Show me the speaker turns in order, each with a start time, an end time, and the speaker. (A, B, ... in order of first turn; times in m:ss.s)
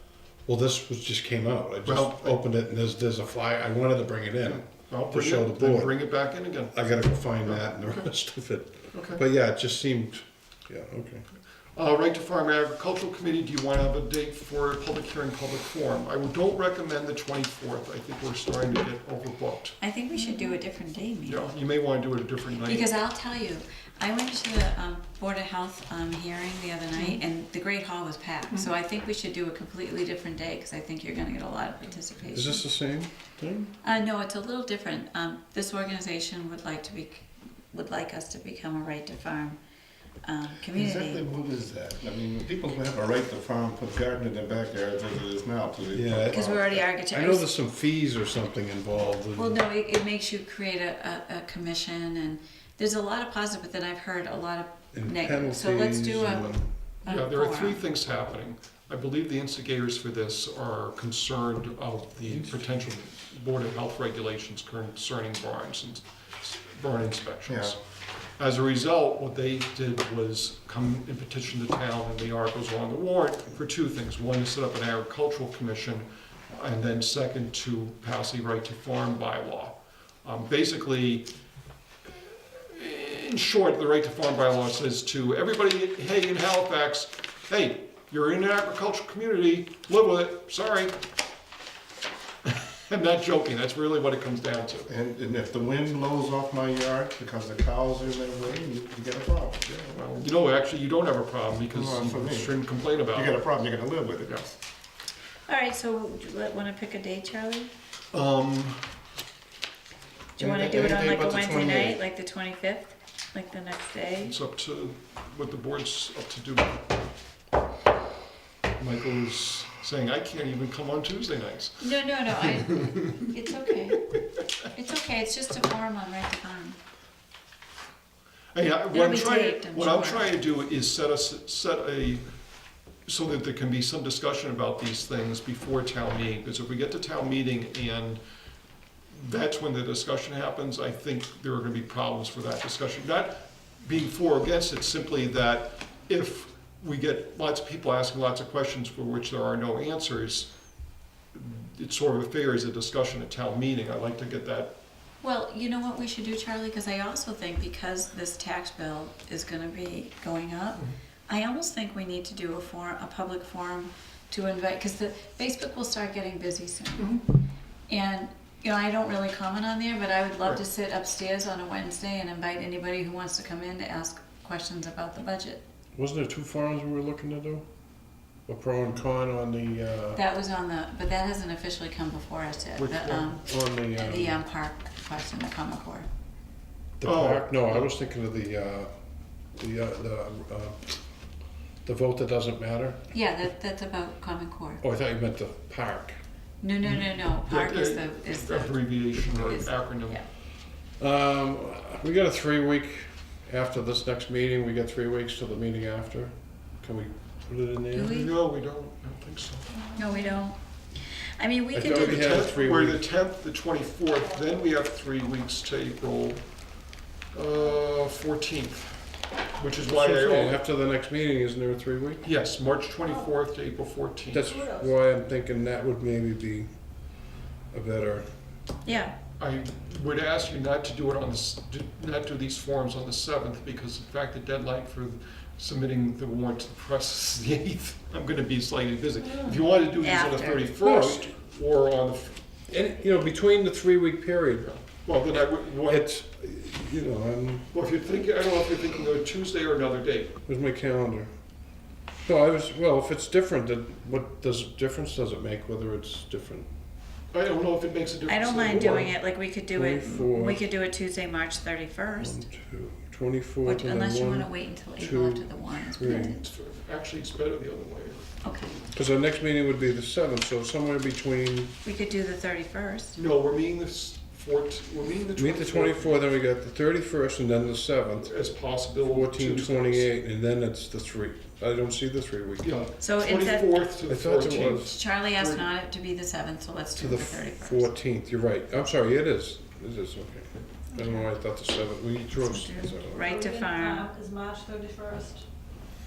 0:00.5-0:06.0 A
0:01.8-0:02.4 B
0:04.5-0:08.1 B
0:06.7-0:11.2 A
0:08.9-0:09.2 B
0:11.8-0:20.5 B
0:19.8-0:21.5 C
0:21.3-0:23.0 B
0:22.6-0:32.6 C
0:32.3-0:33.7 A
0:33.8-0:39.6 C
0:40.2-0:41.2 C
0:40.7-0:46.8 D
0:45.9-0:49.6 A
0:46.3-0:47.5 C
0:49.3-0:57.8 C
0:54.9-0:56.7 A
0:57.0-1:07.8 B
1:07.5-1:07.8 D
1:08.4-1:21.3 B
1:22.1-1:31.0 B
1:32.4-1:34.9 B
1:34.9-1:39.6 D
1:39.6-1:43.4 B
1:41.7-1:44.5 D
1:45.5-1:47.7 C
1:48.1-1:48.8 B
1:50.4-1:54.4 C
1:50.4-1:52.0 A
1:50.6-1:51.0 B
1:54.2-1:56.8 B
1:58.8-2:03.1 B
2:01.8-2:04.0 C
2:04.7-2:06.8 C
2:08.5-2:12.2 B
2:08.9-2:10.3 C
2:13.1-2:18.2 B
2:19.1-2:30.5 B
2:31.3-2:34.7 B
2:35.2-2:47.2 C
2:47.0-2:47.2 B
2:47.9-2:55.6 C
2:56.0-2:57.7 A
2:58.5-3:00.2 A
3:00.2-3:06.1 C
3:02.8-3:03.3 B
3:03.4-3:04.4 A
3:07.0-3:08.9 A
3:07.0-3:07.9 B
3:09.5-3:10.9 A
3:11.8-3:13.1 A
3:13.1-3:14.8 C
3:14.8-3:16.2 A
3:16.6-3:20.2 C
3:16.8-3:20.2 B
3:21.0-3:28.2 A
3:27.9-3:28.3 C
3:28.1-3:29.8 B
3:29.8-3:30.4 E
3:30.0-3:32.5 C
3:31.7-3:33.0 A
3:31.8-3:36.6 B
3:37.3-3:40.6 B
3:39.9-3:42.2 A
3:42.2-3:44.5 B
3:43.0-3:43.3 E
3:44.3-3:46.8 A
3:44.5-3:44.9 E
3:47.7-3:48.3 A
3:48.8-3:49.1 C
3:49.4-4:02.4 B
4:00.0-4:00.6 C
4:00.8-4:01.3 A
4:02.7-4:04.7 A
4:04.6-4:06.1 B
4:05.3-4:07.7 A
4:07.7-4:10.3 B
4:10.5-4:11.3 A
4:12.2-4:16.7 A
4:17.3-4:19.1 B
4:18.3-4:22.4 C
4:19.7-4:20.6 A
4:22.2-4:26.4 A
4:23.6-4:26.3 C
4:26.0-4:28.3 B
4:28.4-4:28.7 C
4:28.9-4:31.7 A
4:31.8-4:33.2 C
4:33.2-4:36.2 B
4:35.4-4:38.4 A
4:38.2-4:40.1 B
4:39.0-4:42.7 A
4:42.6-4:45.7 B
4:43.0-4:43.7 C
4:44.1-4:45.0 A
4:44.5-4:47.9 C
4:47.0-4:53.2 A
4:51.0-4:51.2 E
4:52.4-4:54.1 C
4:53.2-4:55.5 E